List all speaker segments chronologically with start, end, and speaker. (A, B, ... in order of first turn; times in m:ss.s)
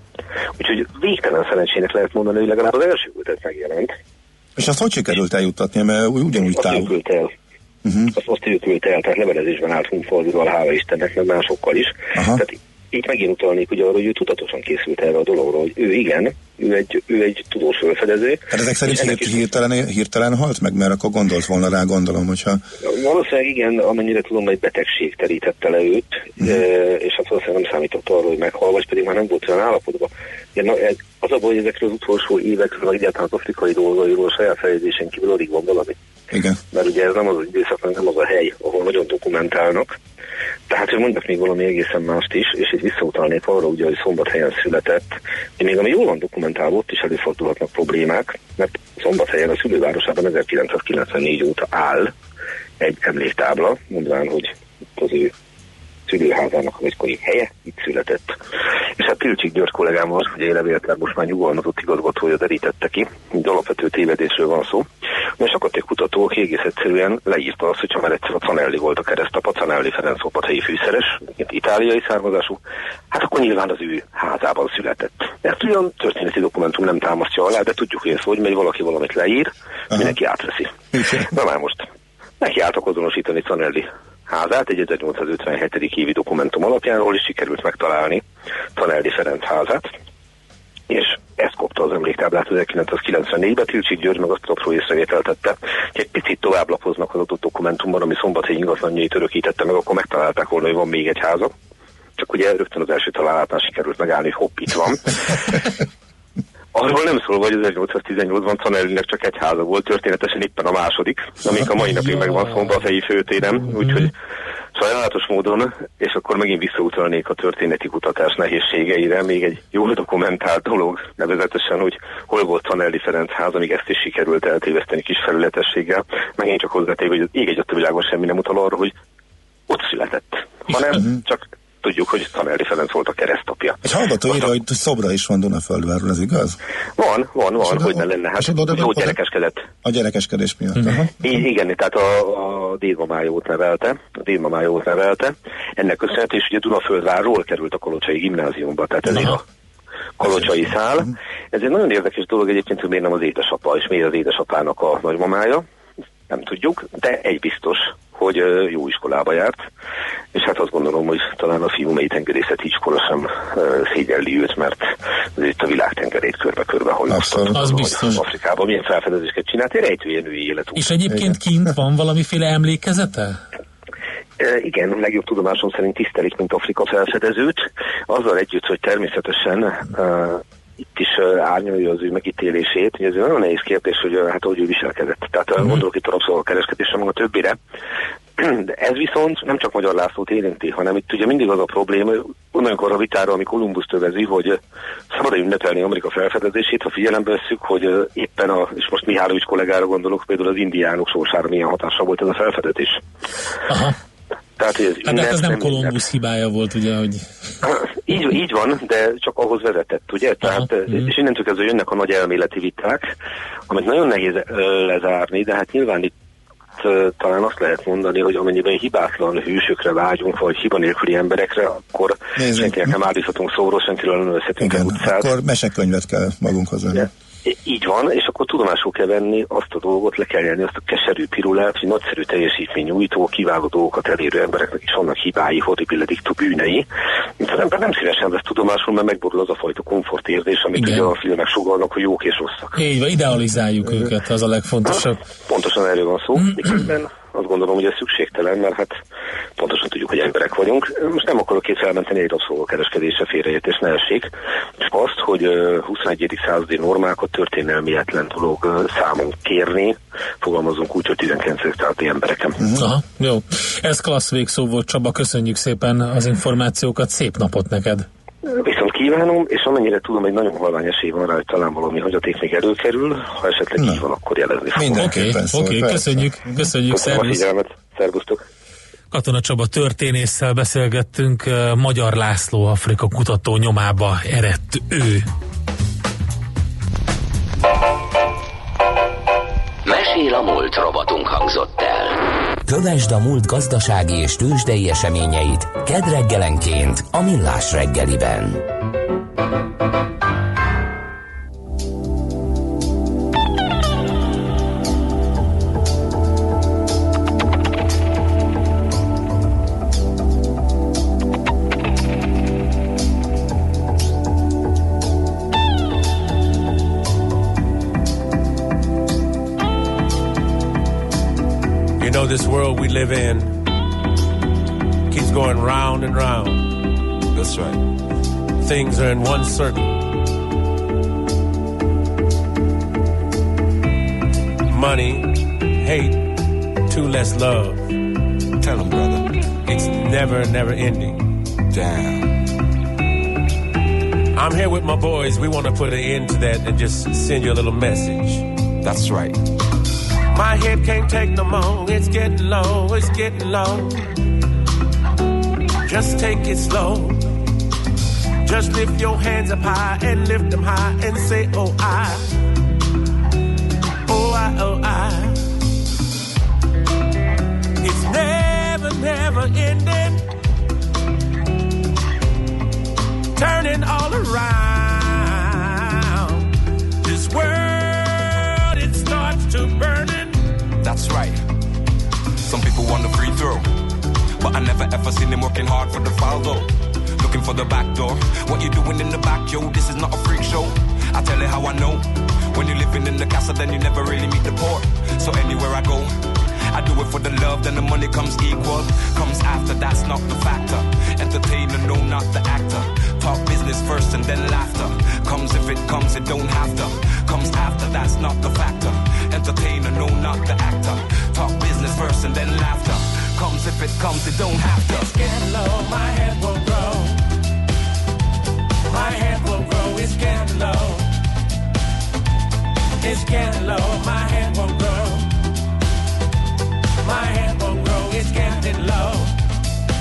0:00.6-0:03.9 A
0:04.6-0:06.9 B
0:06.4-0:07.3 A
0:07.8-0:08.1 B
0:08.1-0:19.4 A
0:12.1-0:12.4 B
0:18.5-0:22.6 B
0:22.8-0:36.0 A
0:36.3-0:36.6 B
0:36.7-0:39.9 A
0:40.7-0:52.1 A
0:52.8-0:55.3 A
0:56.1-0:58.4 A
0:59.0-1:04.9 A
1:05.4-1:12.6 A
1:13.1-1:21.8 A
1:21.0-1:21.2 B
1:22.4-1:28.2 A
1:28.8-1:29.9 A
1:30.9-1:41.5 A
1:42.2-1:45.7 A
1:46.7-1:54.1 A
1:54.7-2:08.9 A
2:09.7-2:14.4 A
2:13.8-2:16.6 B
2:17.0-2:19.7 A
2:17.6-2:19.2 B
2:19.8-2:21.1 B
2:20.8-2:21.0 C
2:21.2-2:29.4 A
2:30.2-2:35.6 A
2:36.3-2:39.6 A
2:40.3-2:50.9 A
2:47.1-2:47.5 B
2:47.5-2:48.2 C
2:50.8-2:53.4 C
2:54.4-3:00.4 A
3:00.9-3:07.6 A
3:08.4-3:14.6 A
3:15.1-3:23.0 A
3:23.7-3:24.0 C
3:24.6-3:26.0 A
3:25.0-3:27.2 C
3:27.6-3:33.1 A
3:30.4-3:31.1 C
3:33.7-3:36.1 A
3:36.8-3:45.3 A
3:42.4-3:43.0 B
3:44.6-3:47.1 B
3:47.0-3:56.8 A
3:57.4-4:02.7 A
4:00.8-4:01.1 C
4:02.7-4:05.2 C
4:05.4-4:09.0 A
4:09.6-4:22.6 A
4:22.7-4:28.1 C
4:28.4-4:35.1 A
4:33.8-4:34.0 B
4:34.7-4:36.6 B
4:34.9-4:37.4 C
4:36.9-4:38.4 A
4:39.1-4:45.2 C
4:49.8-4:58.6 D
5:22.0-5:23.6 E
5:25.1-5:26.7 E
5:27.3-5:27.8 F
5:28.6-5:30.0 E
5:34.7-5:37.9 E
5:38.6-5:39.8 F
5:39.7-5:41.3 E
5:41.7-5:42.4 F
5:44.3-5:48.5 E
5:48.8-5:49.4 F
5:50.3-5:54.1 E
5:55.8-5:57.2 E
5:58.4-6:02.4 E
6:04.1-6:05.5 E
6:07.8-6:10.2 E
6:13.4-6:16.4 E
6:17.0-6:20.5 E
6:20.8-6:21.4 F
6:22.4-6:23.7 F
6:24.4-6:36.2 F
6:36.7-6:55.1 F
6:54.9-6:57.2 E
6:58.9-7:01.1 E
7:03.0-7:05.3 E
7:07.0-7:09.4 E